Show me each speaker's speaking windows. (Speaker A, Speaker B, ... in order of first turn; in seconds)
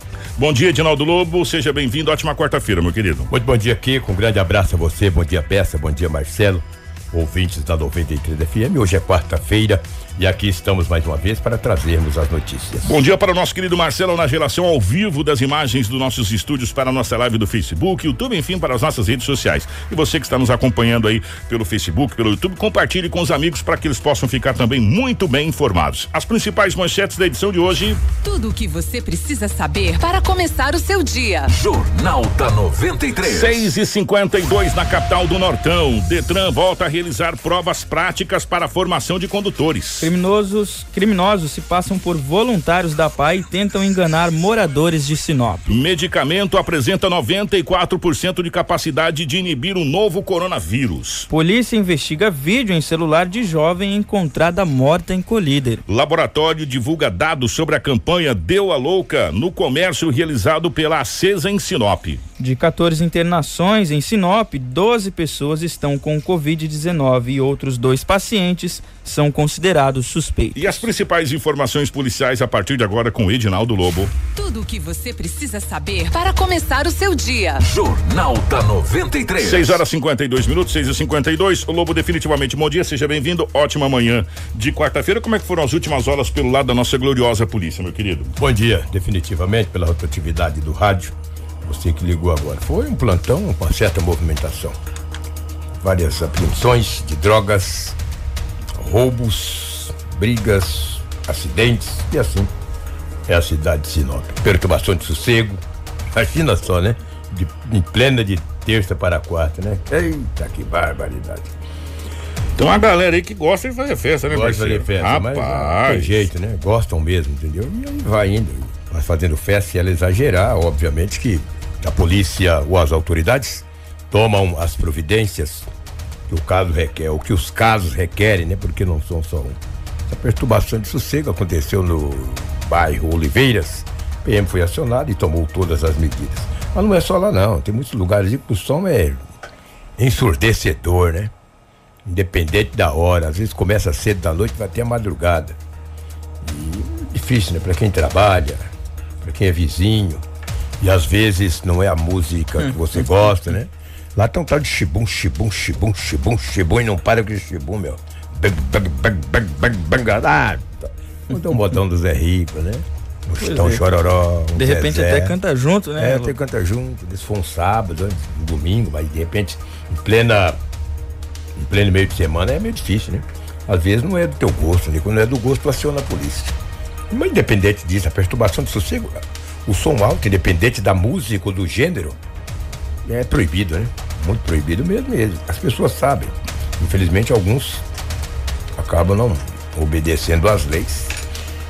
Speaker A: 0.4-3.3, 12.8-28.0, 33.2-40.1, 45.7-51.3, 55.9-62.2, 70.5-74.1, 79.4-88.3, 112.6-116.3
Speaker B: 3.3-12.9, 88.4-94.8, 95.8-98.0, 98.8-102.5, 103.3-105.6, 106.1-111.5, 114.3-125.7, 126.3-139.2, 140.0-141.3, 142.0-145.6, 146.4-148.7, 149.2-150.2, 150.8-165.4, 166.0-170.6, 171.6-176.6, 177.1-182.2, 183.0-187.8, 188.8-191.2
Speaker C: 28.2-31.5, 74.3-77.6
Speaker D: 31.5-33.7, 77.6-79.8
Speaker E: 40.0-45.7, 51.3-55.8, 62.4-70.7, 163.4-163.8, 164.6-166.3